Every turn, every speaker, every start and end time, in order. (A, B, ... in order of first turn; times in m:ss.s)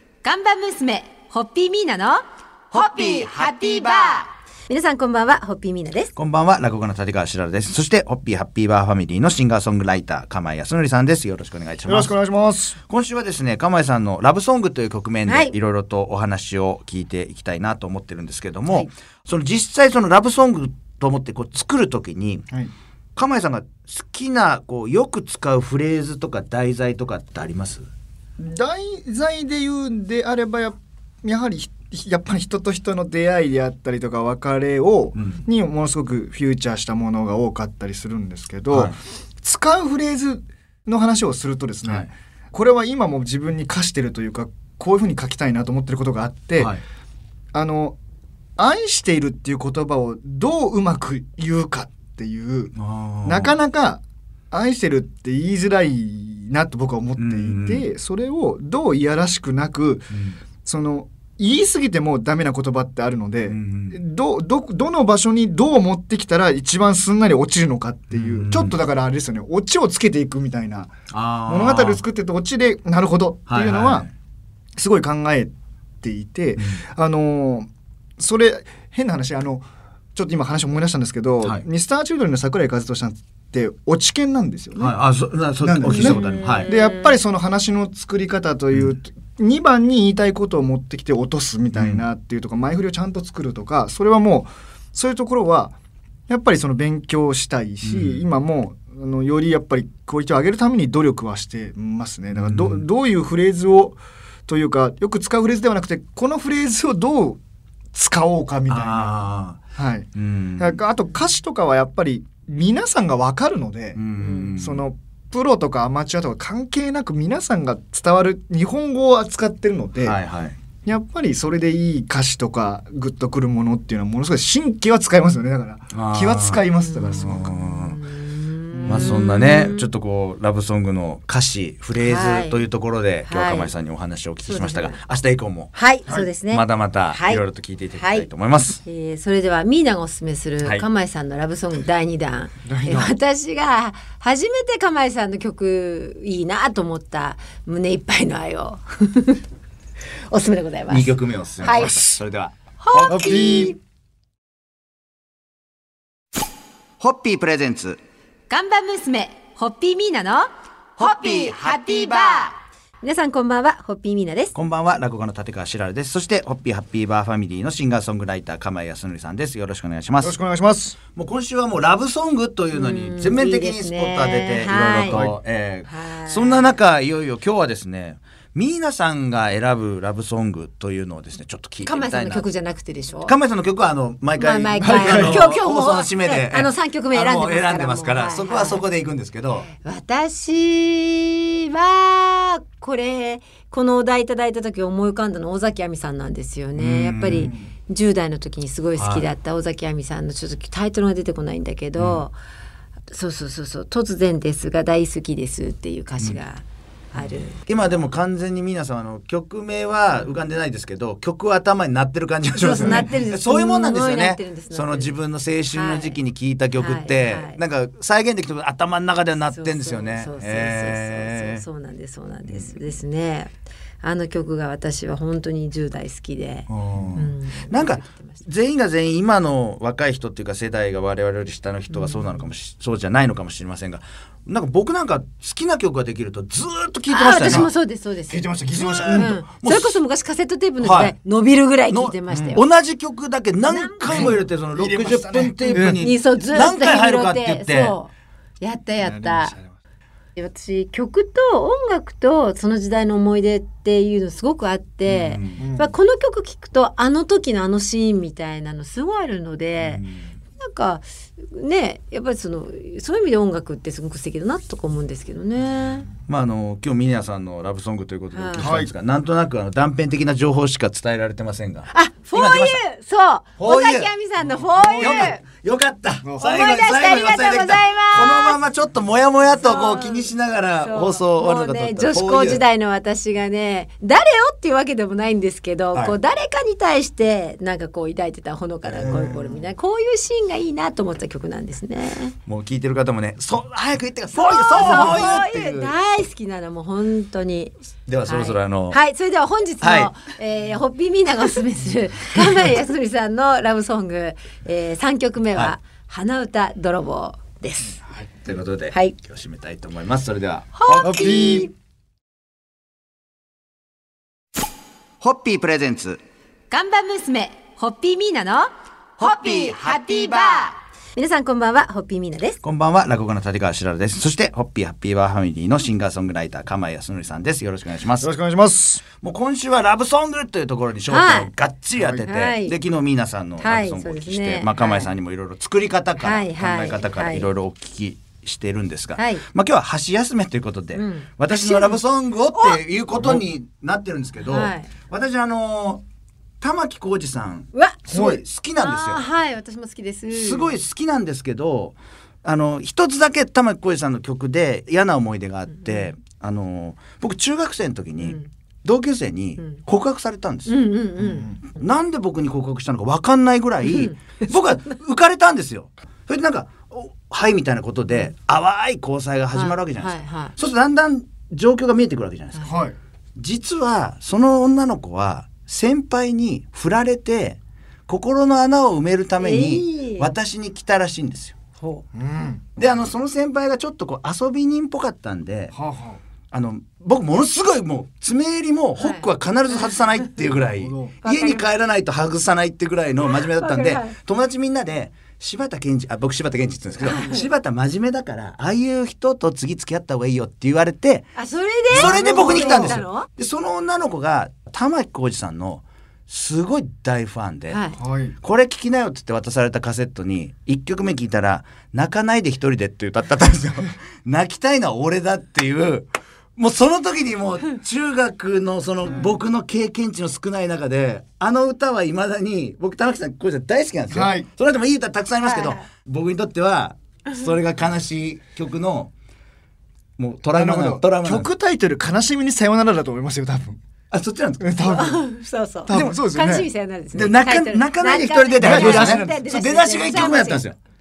0:00.2-0:06.1 A
0:06.2-0:12.1 B
0:11.9-0:12.8 C
0:12.9-0:22.5 B
0:15.3-0:15.5 A
0:23.2-0:27.9 B
0:28.4-0:46.8 C
0:35.2-0:35.4 B
0:38.7-0:39.0 B
0:41.9-0:42.1 B
0:46.6-0:46.8 B
0:47.5-0:48.0 C
0:48.6-0:52.7 C
0:52.8-0:53.5 B
0:53.2-1:00.1 C
0:57.2-0:57.8 B
1:00.1-1:00.4 B
1:00.6-1:10.9 C
1:03.5-1:04.0 B
1:08.1-1:08.8 B
1:11.1-1:12.0 B
1:11.5-1:14.1 C
1:13.5-1:14.1 B
1:14.8-1:15.5 C
1:16.0-1:25.0 C
1:16.6-1:16.8 B
1:24.8-1:26.7 B
1:25.6-1:35.8 C
1:25.8-1:27.2 A
1:31.7-1:32.0 B
1:36.3-1:47.4 C
1:37.8-1:38.2 B
1:42.3-1:42.8 B
1:47.9-1:49.2 C
1:48.7-1:49.6 B
1:49.8-1:54.0 C
1:50.2-1:50.8 B
1:54.0-1:54.8 B
1:54.2-1:54.5 A
1:54.6-2:00.2 C
2:00.0-2:00.6 B
2:00.8-2:07.7 C
2:05.9-2:06.6 B
2:06.8-2:09.9 A
2:07.2-2:08.0 B
2:08.7-2:09.2 C
2:08.9-2:15.7 B
2:12.0-2:12.7 A
2:13.3-2:13.7 A
2:14.4-2:15.0 A
2:15.7-2:17.4 A
2:16.5-2:18.8 B
2:18.0-2:18.3 A
2:18.8-2:29.4 A
2:22.6-2:23.1 C
2:30.3-2:32.0 A
2:30.9-2:32.6 B
2:31.6-2:32.2 C
2:32.8-2:33.8 A
2:33.0-2:33.8 C
2:37.0-2:38.0 B
2:38.5-2:44.6 A
2:41.0-2:41.9 B
2:44.5-2:50.4 B
2:50.2-2:51.0 C
2:51.2-3:02.5 B
2:52.7-2:55.2 A
2:55.1-2:55.4 C
2:55.9-2:56.8 A
3:01.8-3:03.4 A
3:03.3-3:09.7 B
3:04.4-3:08.8 A
3:04.8-3:05.5 C
3:09.7-3:22.4 A
3:16.8-3:17.5 B
3:17.3-3:17.7 C
3:19.0-3:19.3 B
3:22.0-3:22.2 B
3:23.1-3:27.6 A
3:27.2-3:41.6 B
3:32.6-3:35.2 A
3:32.7-3:33.1 C
3:35.7-3:36.2 A
3:36.8-3:37.6 A
3:39.4-3:48.4 A
3:42.5-3:42.8 B
3:46.7-3:57.7 B
3:51.9-3:52.5 A
3:57.1-3:58.5 A
3:57.4-3:57.7 C
3:58.3-3:59.4 C
3:58.7-4:00.0 B
3:59.1-4:02.6 A
4:00.8-4:01.1 B
4:01.9-4:08.0 B
4:02.3-4:02.6 C
4:03.6-4:04.4 A
4:04.1-4:06.1 C
4:05.6-4:09.6 A
4:09.0-4:09.8 C
4:10.4-4:20.0 A
4:15.0-4:15.6 B
4:15.6-4:15.9 C
4:19.8-4:20.4 B
4:20.6-4:26.1 A
4:26.3-4:32.8 B
4:28.3-4:28.7 A
4:28.6-4:28.9 C
4:31.9-4:35.4 A
4:33.6-4:34.1 B
4:34.5-4:35.3 C
4:35.0-4:42.6 B
4:36.4-4:38.6 A
4:39.6-4:52.4 A
4:48.9-4:49.6 B
4:52.5-4:55.9 B
4:54.4-4:57.7 A
4:54.8-4:55.4 C
4:58.1-4:59.0 B
4:58.3-5:08.0 A
4:59.8-5:00.1 B
5:08.1-5:11.3 B
5:10.8-5:11.7 A
5:11.0-5:11.7 C
5:15.2-5:16.2 B
5:16.7-5:22.6 A
5:19.2-5:20.5 B
5:22.6-5:28.3 B
5:28.2-5:29.0 C
5:29.2-5:46.0 B
5:31.1-5:31.5 A
5:32.0-5:32.2 C
5:32.3-5:32.8 A
5:33.6-5:35.1 A
5:36.2-5:37.5 A
5:39.2-5:39.4 A
5:40.9-5:42.0 A
5:42.5-5:42.8 A
5:44.4-5:44.9 A
5:46.6-5:49.2 B
5:47.7-5:48.0 A
5:48.1-5:48.4 C
5:48.8-5:50.7 A
5:50.3-6:00.7 B
5:58.2-5:58.5 A
6:00.7-6:01.6 A
6:01.2-6:01.6 C
6:01.7-6:12.7 B
6:03.8-6:04.5 A
6:09.5-6:10.5 A
6:12.7-6:13.0 C
6:13.4-6:21.6 B
6:19.4-6:20.3 A
6:22.1-6:22.6 C
6:22.8-6:25.8 B
6:25.7-6:26.2 C
6:26.5-6:41.3 B
6:29.0-6:30.3 A
6:30.5-6:31.2 C
6:31.2-6:31.7 A
6:33.3-6:34.1 A
6:37.0-6:37.5 A
6:41.4-6:43.3 A
6:41.9-6:47.8 B
6:42.0-6:43.0 C
6:47.7-6:48.0 A
6:48.0-6:48.4 C
6:48.4-7:09.1 B
7:04.1-7:04.5 C
7:05.4-7:05.8 A
7:10.2-7:11.5 B
7:10.5-7:13.8 C
7:14.1-7:15.0 B
7:14.6-7:15.2 C
7:14.8-7:20.6 A
7:15.9-7:16.7 C
7:15.9-7:16.2 B
7:17.1-7:20.8 B
7:18.6-7:19.4 C